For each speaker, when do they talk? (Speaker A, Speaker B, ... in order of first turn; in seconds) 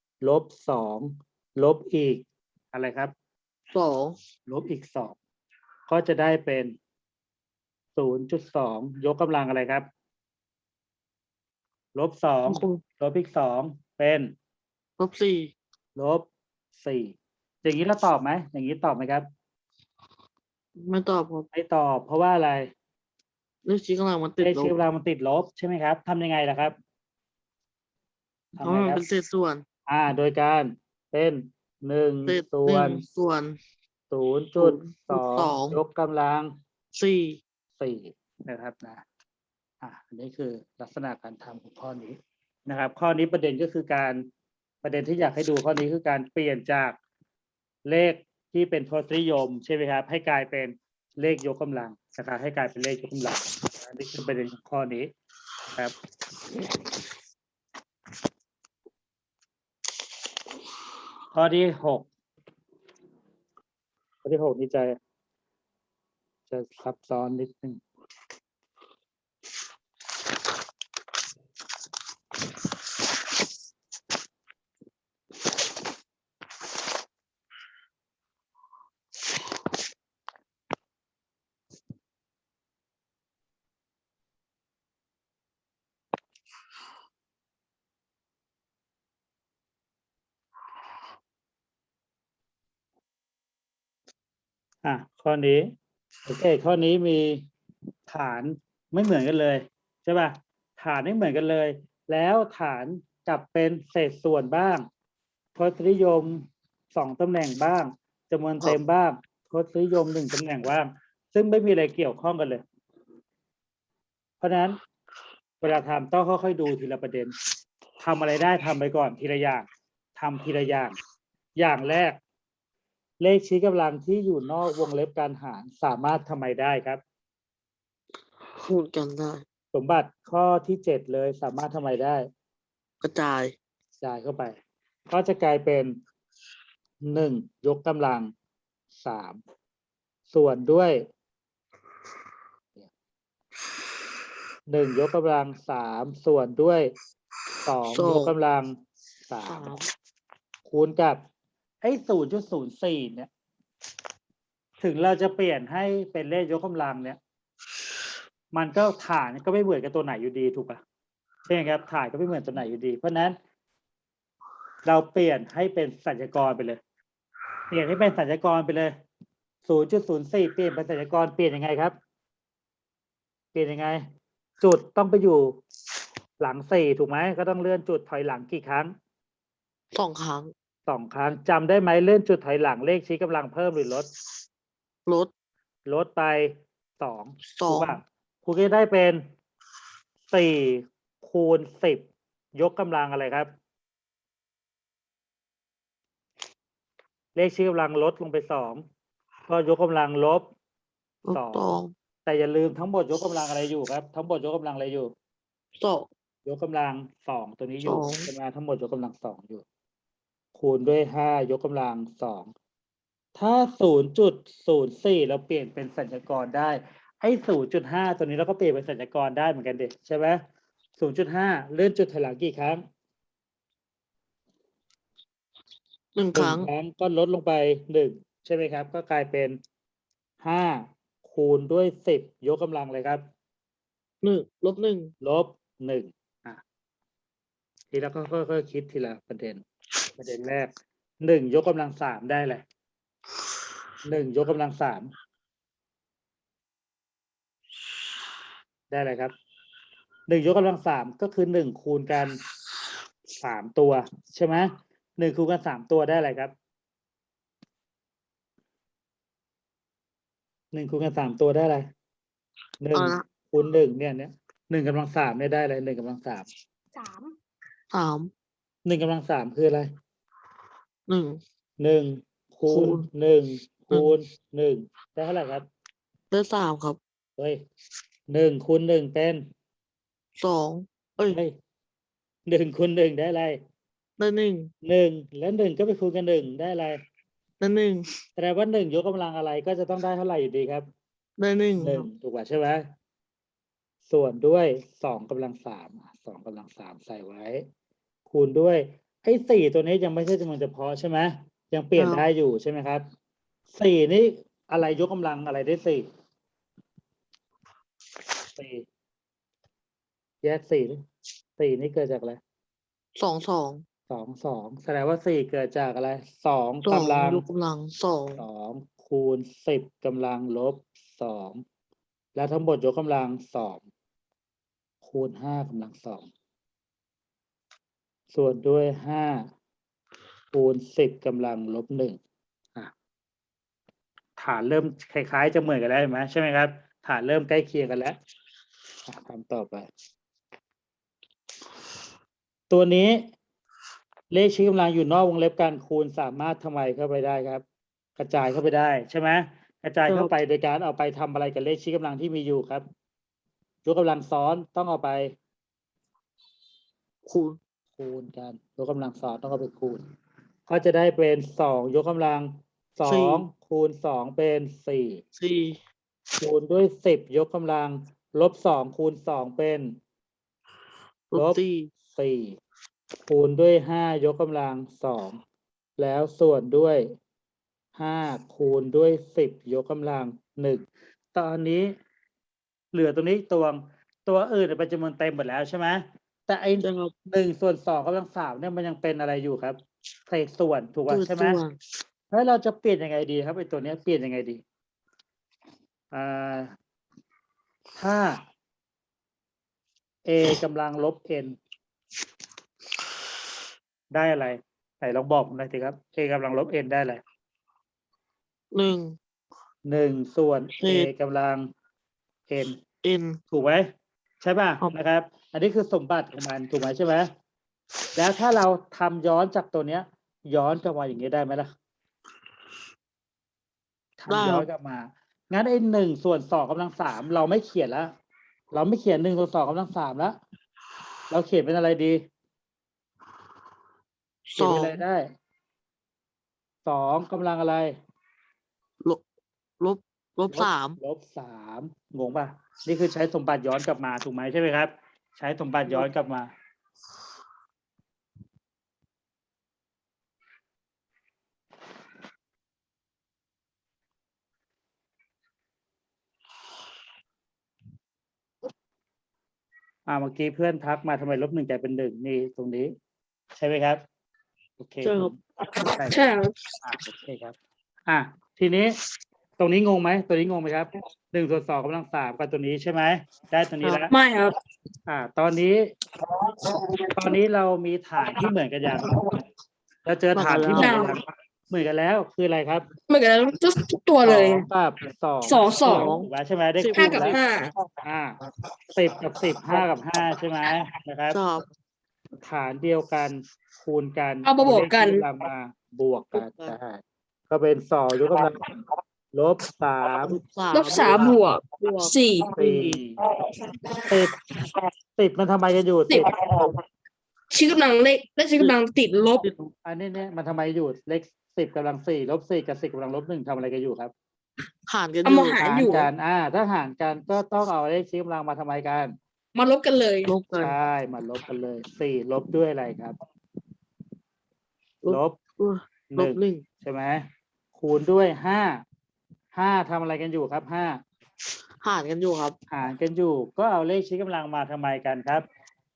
Speaker A: 0.2-3.1, 4.5-5.2, 5.9-6.8, 8.0-9.9, 11.9-14.3, 15.9-16.3, 16.8-19.2, 21.5-22.7, 24.4-26.8, 28.6-29.0, 29.9-33.0, 34.1-36.5, 37.8-39.0, 39.8-44.2, 44.8-47.0, 47.9-55.1, 61.3-62.1, 64.2-65.0, 66.5-67.8, 94.8-95.7, 96.3-97.5, 98.1-104.8, 105.5-112.6, 114.4-114.8, 115.6-117.3, 118.0-121.0, 121.6-122.2, 123.2-127.0, 129.7-132.3, 134.0-134.5, 135.1-135.9, 137.1-138.3, 139.0-139.4, 140.3-141.0, 144.7-146.9, 147.7-148.8, 149.3-149.7, 150.7-151.2, 151.8-153.3, 154.8-157.2, 158.5-160.8, 161.5-163.4, 164.8-166.8, 167.7-168.9, 169.7-171.9, 173.5-174.0, 174.6-175.6, 176.4-178.9, 180.9-184.1, 185.9-189.2, 190.3-193.5, 197.3-198.8, 199.5-200.4, 201.3-201.7, 202.3-205.1, 206.4-209.6, 210.5-212.5, 213.3-220.4, 221.0-222.8, 226.3-229.6, 230.4-233.2, 235.2-236.6, 237.9-239.6, 240.2-240.7, 241.2-242.6, 244.1-245.1, 248.9-249.3, 250.3-252.4, 253.4-256.5, 260.7-261.9, 262.8-266.5, 268.9-269.9, 271.8-275.7, 278.3-279.4, 281.3-281.5, 282.5-283.6, 284.8-287.0, 288.4-290.9, 291.8-292.8, 294.1-297.6, 298.3-303.0, 303.7-306.1, 308.6-308.9, 310.4-311.0, 311.6-312.4, 314.1-317.4, 318.4-321.6, 322.4-323.8, 325.0-326.3, 328.3-329.5, 330.5-332.2, 334.4-338.2, 339.1-339.9, 342.7-343.3, 344.3-347.6, 348.2-352.8, 353.9-355.3, 358.0-360.0, 360.7-365.2, 366.4-369.9, 371.4-371.6, 372.1-372.6, 373.3-375.4, 376.0-377.0, 378.0-381.9, 382.9-391.6, 392.3-394.6, 396.1-396.7, 398.0-398.4, 400.3-401.6, 404.1-407.2, 409.9-411.7, 412.5-412.8, 413.5-413.9, 414.4-417.3, 418.2-421.7, 424.2-428.1, 428.7-430.4, 431.3-432.2, 434.6-435.3, 436.9-437.9, 440.5-446.5, 460.1-462.9, 463.6-464.0, 464.8-466.2, 466.8-467.6, 468.1-469.0, 469.6-474.1, 475.1-475.9, 477.1-479.1, 480.1-482.9, 484.2-487.4, 488.0-488.4, 488.9-491.4, 492.4-498.7, 499.3-500.4, 500.9-501.4, 502.6-503.1, 504.1-504.3, 505.2-506.3, 509.9-514.1, 515.8-519.1, 520.6-523.1, 525.1-525.4, 526.1-527.2, 527.8-528.8, 529.5-531.0, 532.7-535.4
Speaker B: 3.7-4.2, 12.5-12.8, 15.0-15.5, 20.8-21.5, 23.6-24.8, 28.6-29.6, 32.3-33.6, 34.6-35.8, 36.9-37.4, 128.6-129.4, 133.0-133.6, 147.9-148.3, 149.4-149.9, 179.9-180.5, 187.6-188.0, 201.2-201.9, 205.8-206.1, 207.8-208.3, 226.2-226.7, 234.2-235.1, 262.9-263.3, 267.9-268.3, 271.1-271.4, 272.7-273.1, 276.3-277.0, 280.4-281.4, 284.2-284.7, 287.6-288.1, 291.4-292.1, 302.0-302.3, 313.2-313.8, 316.9-318.4, 350.1-350.3, 357.3-357.6, 363.0-363.4, 365.4-365.8, 371.3-371.9, 386.8-387.1, 391.1-391.8, 408.7-409.2, 410.8-411.1, 413.0-413.4, 424.3-424.7, 434.5-435.0, 439.8-441.0, 465.0-465.3, 473.8-474.1, 480.3-481.1, 485.8-486.3, 486.8-487.4, 491.3-491.7, 496.4-496.8, 500.2-503.0, 509.4-509.7, 514.9-515.9, 520.2-520.8, 525.0-526.6, 531.8-532.6
Speaker C: 465.7-466.6, 474.1-474.6, 476.6-477.1, 480.8-481.2, 483.1-484.7, 485.4-486.1, 486.9-487.7, 494.4-495.2, 500.7-502.5, 503.4-504.8, 506.1-506.7, 507.5-509.4, 515.2-516.1, 519.5-520.3